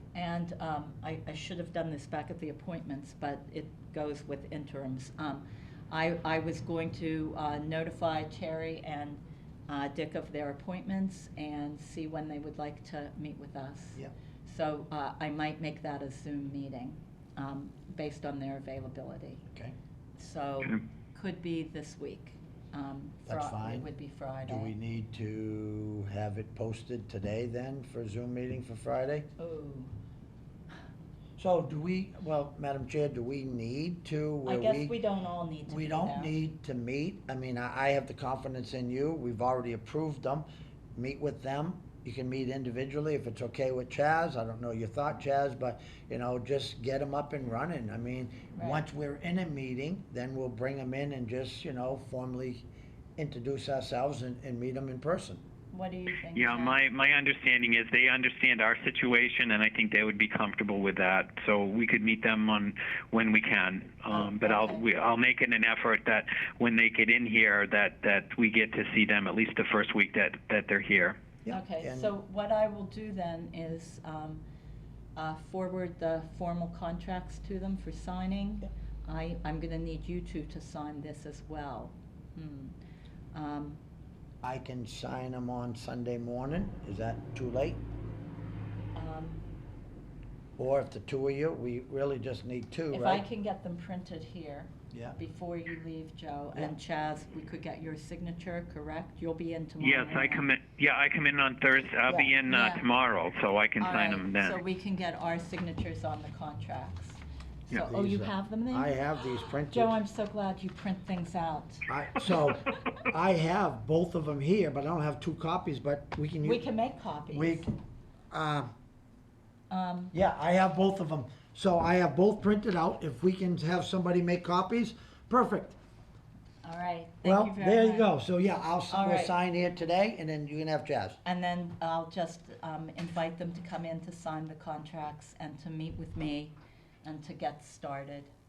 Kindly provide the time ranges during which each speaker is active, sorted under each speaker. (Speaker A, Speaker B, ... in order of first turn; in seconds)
Speaker A: 0.1-19.4, 20.2-24.7, 29.4-29.9, 34.5-36.4, 48.6-48.8, 55.7-56.9, 64.1-64.8, 71.5-74.4, 75.2-82.7, 83.3-83.8, 88.9-89.4, 92.9-100.5, 102.5-102.8, 103.8-112.7, 116.4-117.7, 119.7-120.1, 126.6-128.1, 128.9-129.3, 131.2-138.3
Speaker B: 19.5-19.8, 23.2-23.9, 24.4-29.3, 31.4-35.0, 35.6-52.6, 53.2-55.4, 71.4-72.1, 84.4-87.8, 90.6-93.2, 94.9-95.2, 107.9-109.9, 111.9-116.6, 117.3-117.7, 118.3-118.7, 120.1-125.8, 127.2-131.2
Speaker C: 56.3-71.2, 99.8-104.6